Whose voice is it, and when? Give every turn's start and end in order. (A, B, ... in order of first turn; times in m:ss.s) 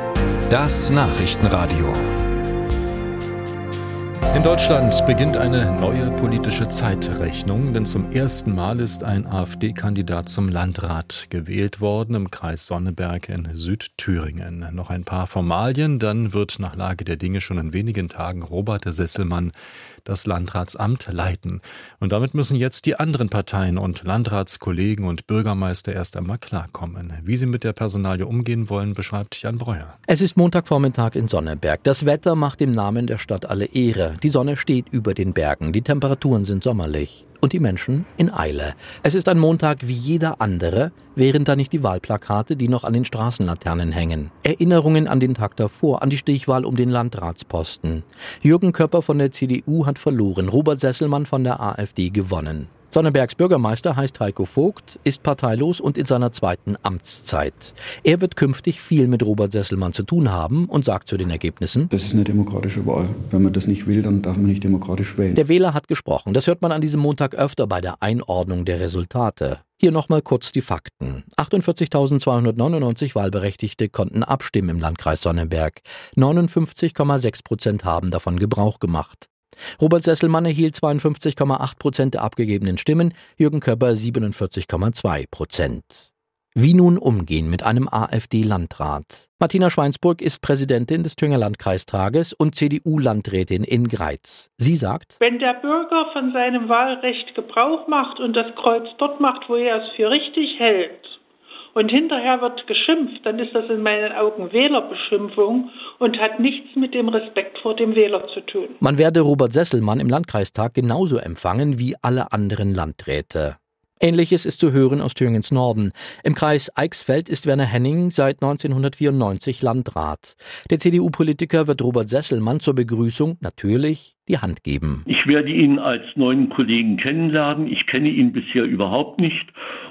0:00.5-0:02.1 A
0:04.3-0:29.9 A
0:30.1-1:01.9 B
1:01.9-1:05.4 C
1:05.3-1:35.2 B
1:35.2-1:41.2 D
1:41.7-1:48.8 D
1:48.8-2:05.0 B
2:05.1-2:09.5 E